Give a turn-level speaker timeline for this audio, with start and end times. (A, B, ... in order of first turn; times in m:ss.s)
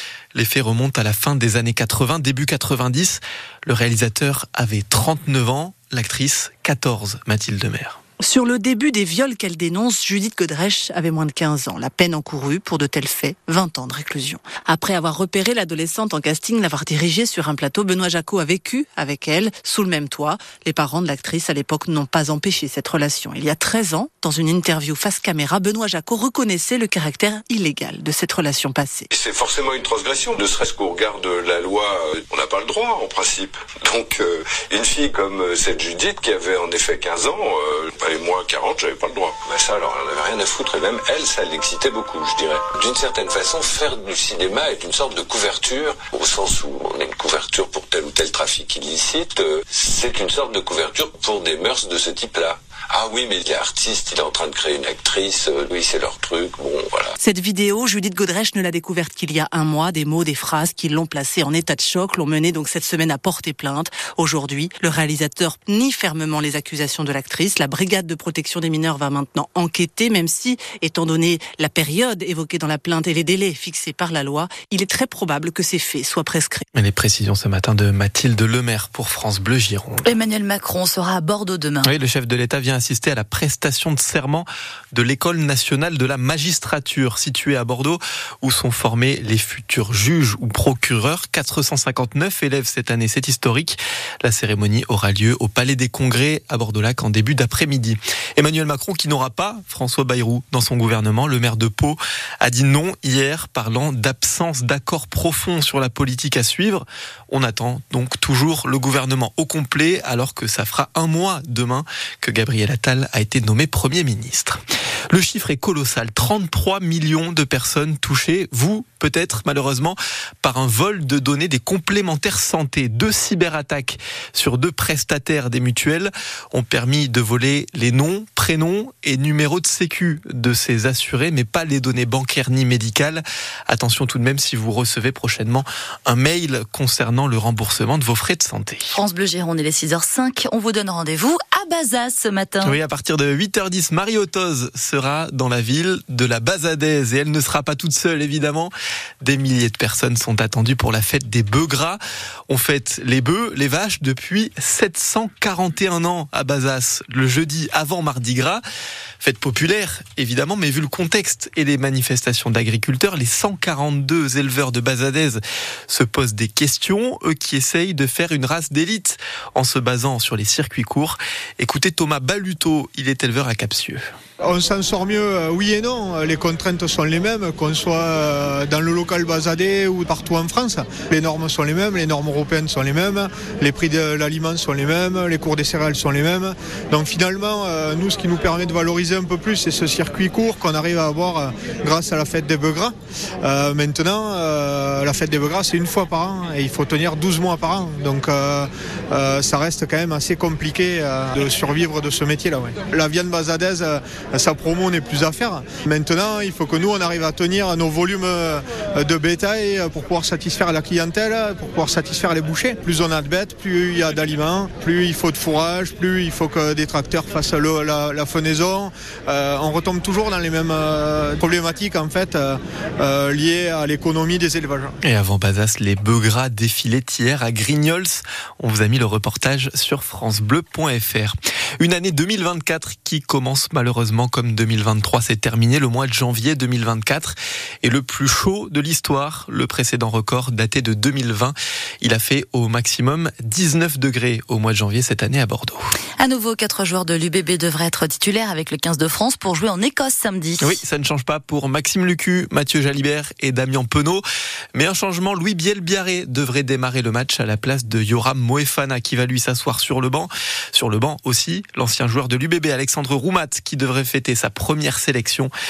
0:00.3-0:08.0 A
0:08.2-0:29.1 B
0:29.1-0:57.1 C
0:57.2-1:16.6 B
1:16.7-1:20.2 A
1:20.0-1:21.9 D
1:21.8-2:18.9 A
2:18.9-2:22.7 D
2:22.6-2:38.6 A
2:39.2-2:54.0 A
2:54.4-3:44.9 E
3:45.0-4:05.9 A
4:06.2-4:10.7 D
4:10.6-4:14.2 A
4:14.7-4:25.5 A